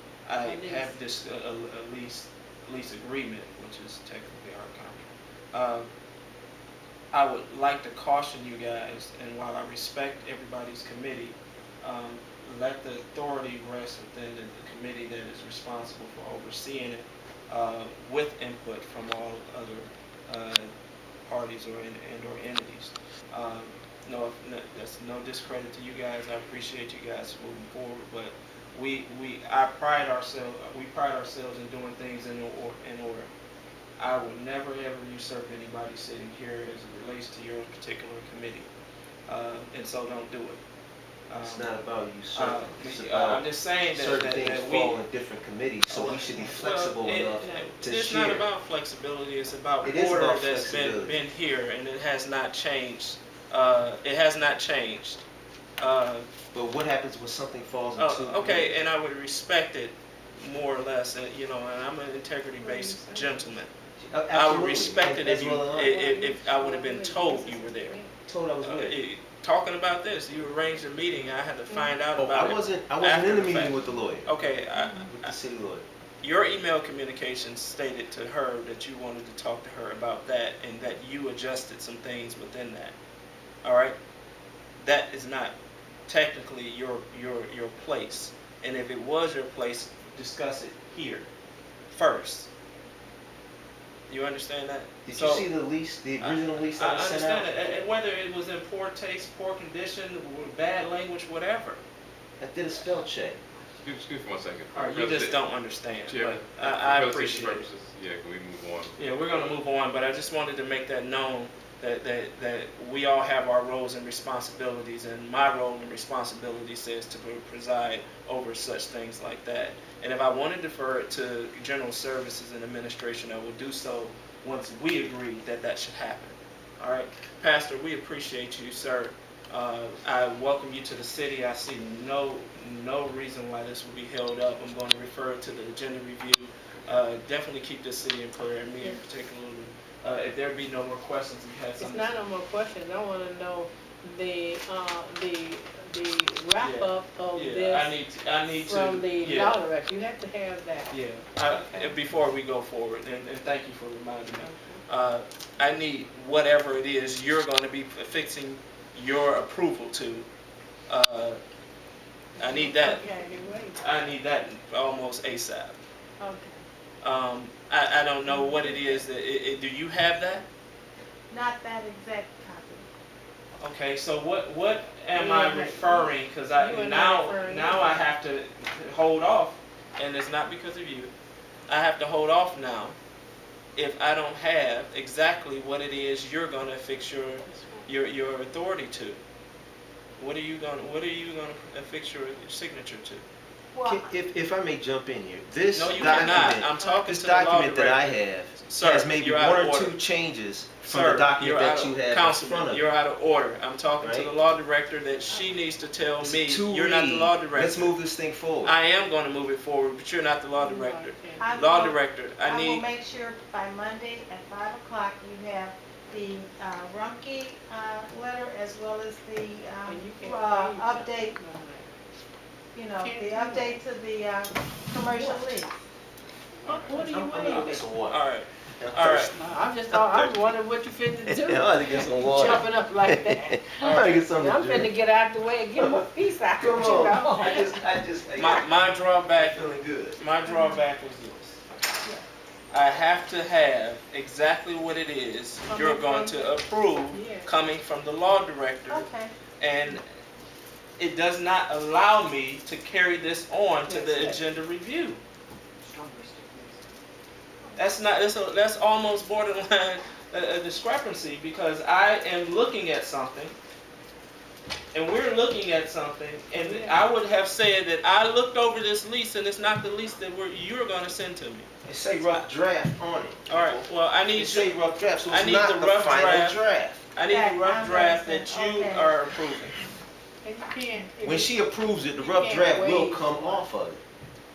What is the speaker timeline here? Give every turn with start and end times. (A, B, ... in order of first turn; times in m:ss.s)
0:00.2-0:05.9 A
0:00.4-0:00.9 B
0:07.1-0:20.7 A
0:21.2-0:33.3 A
0:34.0-0:38.7 A
0:39.3-0:40.6 A
0:41.3-0:45.0 A
0:41.4-0:48.5 C
0:45.9-0:55.2 A
0:47.4-0:47.7 B
0:49.8-0:51.2 C
0:55.8-0:56.3 A
0:56.5-0:58.7 C
0:58.0-1:03.7 A
1:02.6-1:03.6 B
1:04.0-1:06.0 C
1:04.3-1:08.0 A
1:05.8-1:08.1 B
1:08.2-1:09.0 C
1:08.6-1:15.3 A
1:12.1-1:14.3 C
1:14.9-1:15.8 C
1:16.2-1:23.0 A
1:23.6-1:24.0 A
1:24.8-1:25.5 A
1:26.1-1:31.3 A
1:31.9-1:32.5 A
1:34.1-1:35.5 A
1:35.0-1:37.5 C
1:36.2-1:41.8 A
1:42.4-1:43.4 C
1:43.8-1:45.4 D
1:44.7-1:47.6 A
1:46.1-1:48.9 D
1:49.0-2:22.1 A
2:21.8-2:28.0 B
2:26.6-2:29.6 A
2:28.6-2:32.0 B
2:30.9-2:40.3 A
2:34.4-2:34.8 B
2:40.9-2:41.4 A
2:42.4-2:43.0 A
2:42.4-2:43.8 B
2:43.8-2:45.8 A
2:46.2-2:46.6 E
2:47.0-2:50.4 A
2:48.3-2:49.0 E
2:51.3-2:52.9 E
2:53.6-3:01.1 A
2:55.1-2:58.1 B
3:01.7-3:03.0 A
3:03.7-3:09.2 A
3:10.2-3:13.2 A
3:13.7-3:14.0 E
3:13.8-3:22.8 C
3:15.7-3:20.0 A
3:16.0-3:17.0 E
3:20.8-3:27.9 A
3:24.0-3:24.3 C
3:26.2-3:28.7 C
3:28.6-3:32.8 A
3:30.6-3:31.5 B
3:31.4-3:41.4 E
3:39.8-3:41.9 B
3:42.7-3:45.7 E
3:43.0-3:43.8 B
3:45.1-3:45.5 B
3:46.6-3:47.8 B
3:46.7-3:48.2 C
3:48.0-3:49.3 A
3:48.8-3:50.5 C
3:49.3-3:57.8 B
3:51.2-3:54.9 C
3:53.9-3:54.2 A
3:55.7-3:58.7 C
3:58.4-4:01.6 A
3:59.3-4:00.2 C
4:02.7-4:09.1 A
4:05.7-4:06.5 B
4:07.1-4:07.5 B
4:08.9-4:09.3 E
4:09.6-4:10.0 A
4:11.0-4:15.2 A
4:13.9-4:14.4 B
4:17.8-4:23.6 A
4:24.9-4:31.7 A
4:26.5-4:27.0 B
4:31.8-4:37.0 C
4:33.5-4:36.6 A
4:37.1-4:39.8 A
4:37.2-4:39.2 E
4:40.4-4:41.6 B
4:41.2-4:44.0 C
4:42.2-4:43.7 B